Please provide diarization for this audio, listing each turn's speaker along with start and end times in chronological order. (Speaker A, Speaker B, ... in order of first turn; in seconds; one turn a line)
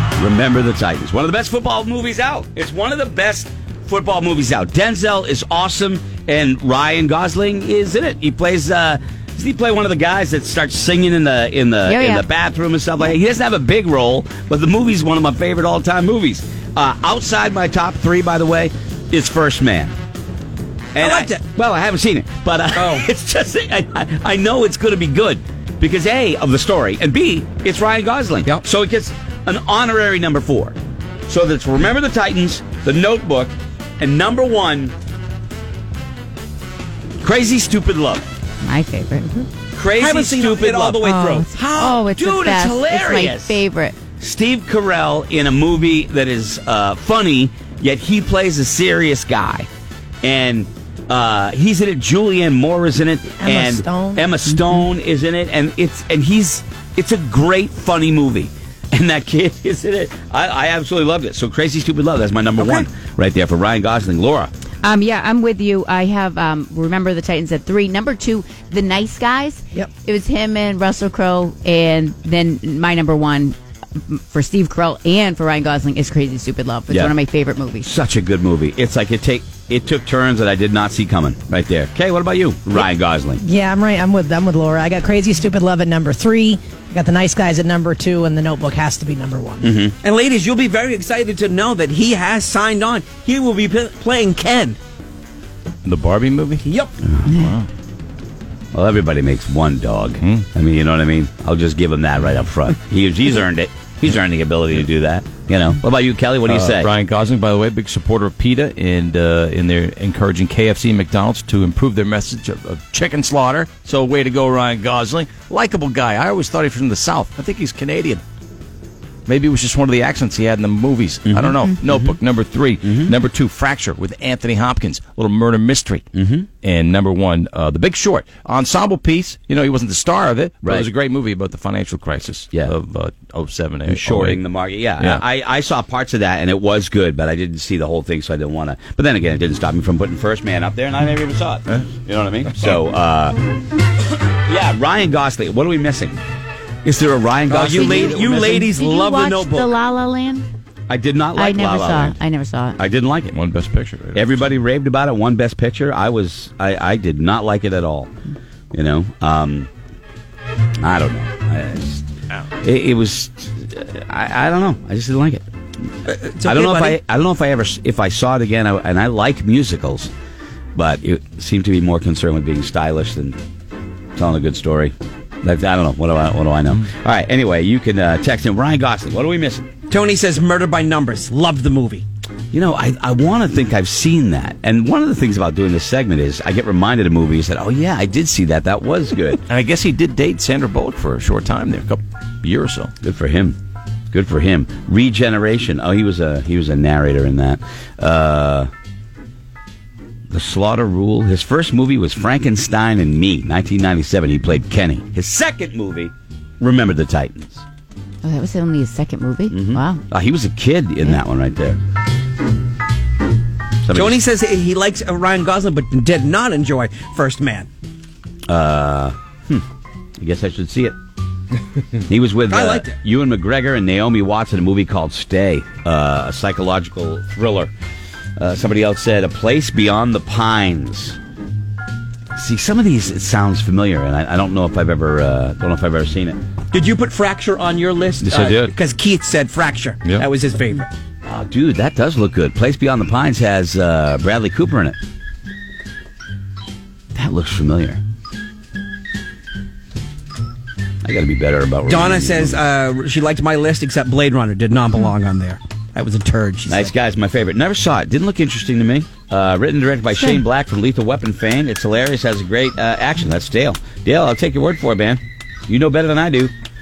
Speaker A: 0.2-19.9
Speaker B: 11.8-12.2
Speaker A: 20.9-30.8
Speaker C: 21.0-21.4
Speaker C: 22.7-23.1
Speaker A: 31.3-34.9
Speaker A: 37.2-38.2
Speaker B: 38.6-39.5
Speaker A: 39.7-41.0
Speaker C: 40.0-42.0
Speaker B: 41.0-44.0
Speaker A: 42.0-43.6
Speaker A: 44.2-49.7
Speaker A: 50.2-64.5
Speaker D: 53.4-54.2
Speaker B: 64.8-77.9
Speaker A: 76.9-77.1
Speaker A: 77.8-83.4
Speaker D: 83.4-89.7
Speaker A: 89.6-89.9
Speaker C: 90.0-94.8
Speaker E: 95.8-96.6
Speaker C: 96.6-96.9
Speaker B: 97.2-97.5
Speaker E: 97.2-97.7
Speaker A: 98.7-106.9
Speaker E: 100.2-100.5
Speaker E: 106.4-118.2
Speaker E: 119.3-126.0
Speaker A: 121.2-122.2
Speaker A: 122.8-123.1
Speaker A: 126.1-126.5
Speaker E: 126.6-134.4
Speaker A: 130.6-130.9
Speaker A: 133.9-143.4
Speaker A: 144.4-146.2
Speaker A: 146.8-148.6
Speaker C: 147.5-149.7
Speaker B: 147.7-150.4
Speaker A: 150.9-152.1
Speaker B: 151.3-152.8
Speaker A: 152.8-153.3
Speaker E: 153.3-154.3
Speaker A: 154.1-158.1
Speaker A: 158.7-159.7
Speaker A: 160.8-162.1
Speaker A: 162.6-165.4
Speaker C: 166.1-167.0
Speaker A: 166.4-170.1
Speaker A: 170.7-173.4
Speaker A: 174.2-179.7
Speaker C: 179.9-182.0
Speaker A: 182.5-189.4
Speaker E: 189.5-192.9
Speaker A: 193.0-193.6
Speaker A: 194.1-198.7
Speaker A: 200.3-207.6
Speaker B: 208.2-210.0
Speaker A: 209.5-211.8
Speaker A: 213.8-214.2
Speaker C: 213.9-217.7
Speaker A: 218.5-219.6
Speaker A: 220.2-220.9
Speaker A: 222.1-227.7
Speaker C: 222.5-222.9
Speaker A: 228.4-231.2
Speaker A: 232.3-236.4
Speaker C: 236.7-240.9
Speaker A: 238.2-238.7
Speaker A: 241.2-245.0
Speaker A: 247.1-248.0
Speaker A: 251.0-252.6
Speaker C: 251.9-256.9
Speaker A: 256.7-266.5